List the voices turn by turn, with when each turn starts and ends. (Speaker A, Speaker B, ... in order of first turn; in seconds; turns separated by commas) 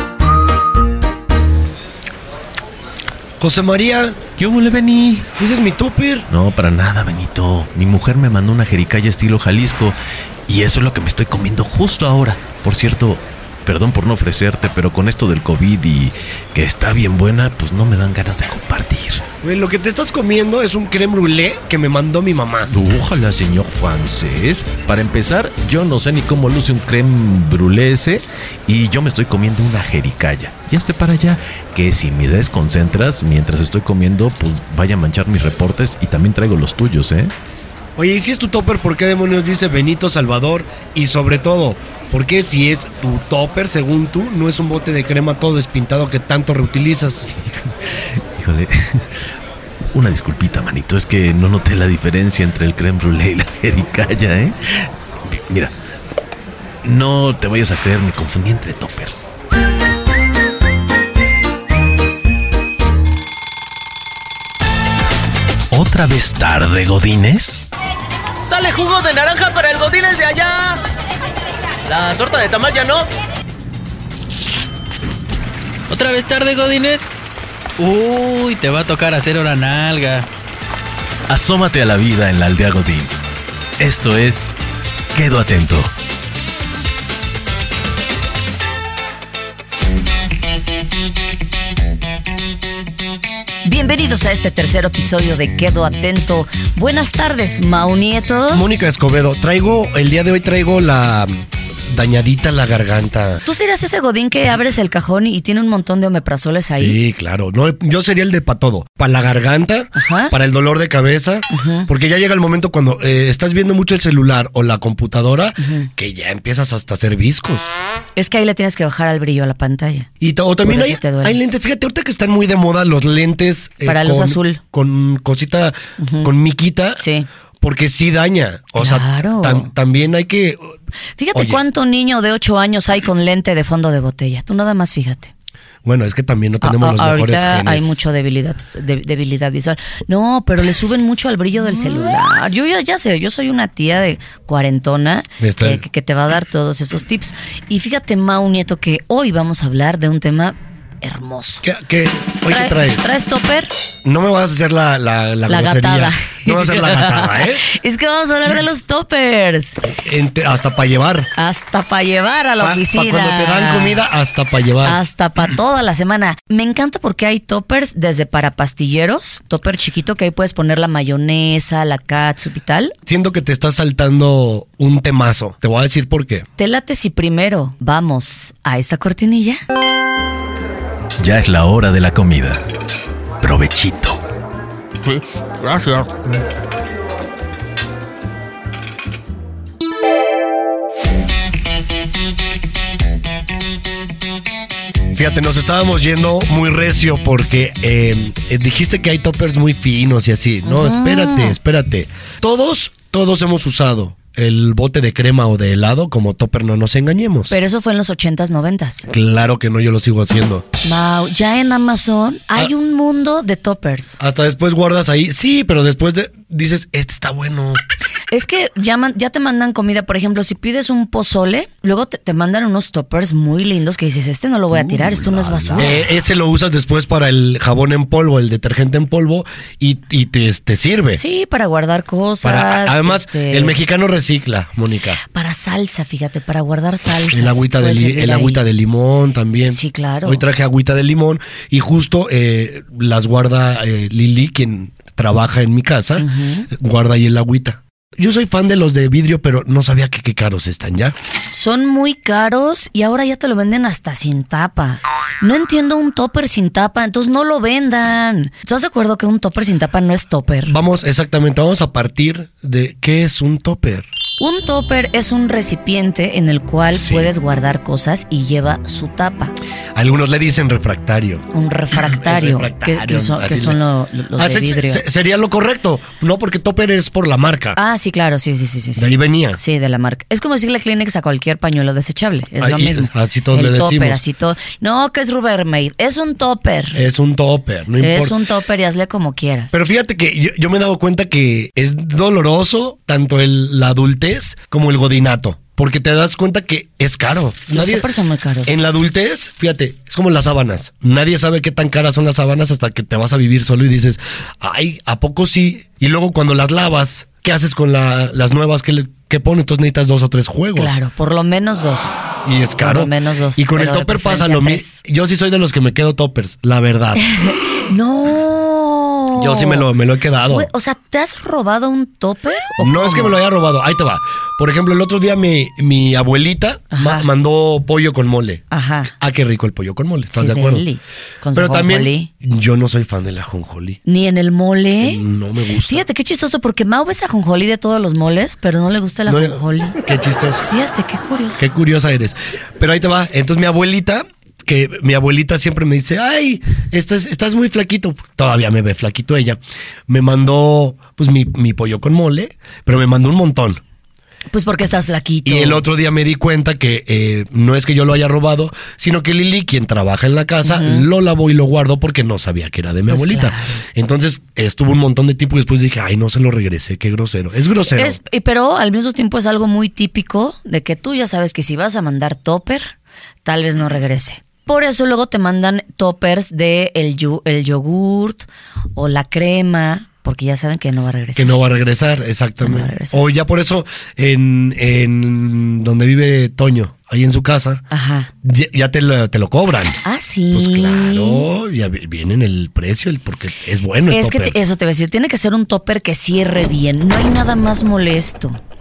Speaker A: 3.4-4.2, Speaker B: 4.4-5.3, Speaker A: 5.3-6.3, Speaker B: 6.3-19.2, Speaker A: 19.4-22.7, Speaker B: 22.7-37.3, Speaker A: 38.0-47.3, Speaker B: 48.3-49.1, Speaker B: 49.9-55.7, Speaker B: 56.8-59.3, Speaker B: 65.7-67.7, Speaker C: 68.4-70.8, Speaker C: 71.8-73.1, Speaker D: 75.9-77.0, Speaker D: 77.8-80.2, Speaker B: 81.3-83.1, Speaker B: 83.8-84.5, Speaker B: 85.1-85.9, Speaker E: 93.6-98.7, Speaker A: 98.5-103.4, Speaker E: 103.4-107.0, Speaker A: 106.7-117.7, Speaker E: 109.9-110.3, Speaker E: 111.5-111.9, Speaker E: 115.6-115.9, Speaker E: 118.2-120.1, Speaker A: 120.2-127.0, Speaker E: 120.6-121.4, Speaker E: 123.8-124.6, Speaker E: 126.0-126.3, Speaker E: 127.0-127.3, Speaker A: 127.6-130.8, Speaker E: 128.8-129.7, Speaker E: 131.2-135.3, Speaker A: 131.3-131.6, Speaker A: 135.8-137.9, Speaker E: 136.6-151.6, Speaker A: 145.4-145.8, Speaker A: 151.6-153.1, Speaker E: 152.5-153.7, Speaker A: 154.0-157.6, Speaker E: 155.5-159.8, Speaker A: 159.8-161.3, Speaker E: 161.4-164.1, Speaker A: 162.6-165.0, Speaker E: 164.8-172.9, Speaker A: 173.1-176.5, Speaker E: 176.6-179.6, Speaker B: 181.2-182.6, Speaker B: 183.4-184.2, Speaker D: 185.1-186.2, Speaker A: 195.1-207.5, Speaker E: 200.6-201.6, Speaker E: 207.5-209.1, Speaker A: 209.1-210.6, Speaker E: 210.8-214.2, Speaker A: 214.2-217.8, Speaker E: 218.3-226.0, Speaker B: 224.8-226.0, Speaker A: 225.7-231.2, Speaker E: 231.1-233.8, Speaker A: 232.4-235.2, Speaker E: 235.3-238.6, Speaker A: 237.3-251.2, Speaker E: 239.7-240.4, Speaker E: 246.2-246.7, Speaker E: 251.5-260.7, Speaker A: 260.6-264.1, Speaker E: 264.4-269.5, Speaker A: 266.9-267.3, Speaker A: 269.9-273.8, Speaker E: 271.5-275.0, Speaker A: 274.4-277.8, Speaker E: 277.8-287.0, Speaker A: 278.9-279.6, Speaker A: 282.6-284.2, Speaker A: 286.9-288.4, Speaker E: 288.0-289.7, Speaker A: 289.7-298.1, Speaker E: 297.7-298.7, Speaker A: 298.6-311.0, Speaker E: 310.7-312.2, Speaker A: 312.4-317.2, Speaker E: 312.8-315.0, Speaker E: 317.1-319.9, Speaker A: 319.4-320.7, Speaker E: 320.5-323.4, Speaker A: 322.8-328.6, Speaker E: 326.9-327.3, Speaker E: 328.7-329.1, Speaker A: 329.2-330.8, Speaker E: 330.3-332.3, Speaker A: 331.5-334.0, Speaker E: 334.1-335.2, Speaker A: 335.0-336.0, Speaker E: 335.9-340.0, Speaker A: 339.2-340.7, Speaker E: 340.7-341.6, Speaker A: 341.6-353.8, Speaker E: 354.5-355.8, Speaker A: 355.4-368.2, Speaker E: 360.6-361.1, Speaker E: 363.1-363.8, Speaker E: 367.9-372.9, Speaker E: 373.4-381.6, Speaker A: 381.4-387.8, Speaker E: 382.6-383.2, Speaker E: 387.9-388.3, Speaker A: 388.4-390.0, Speaker E: 390.0-391.5, Speaker A: 390.5-394.6, Speaker E: 394.1-398.6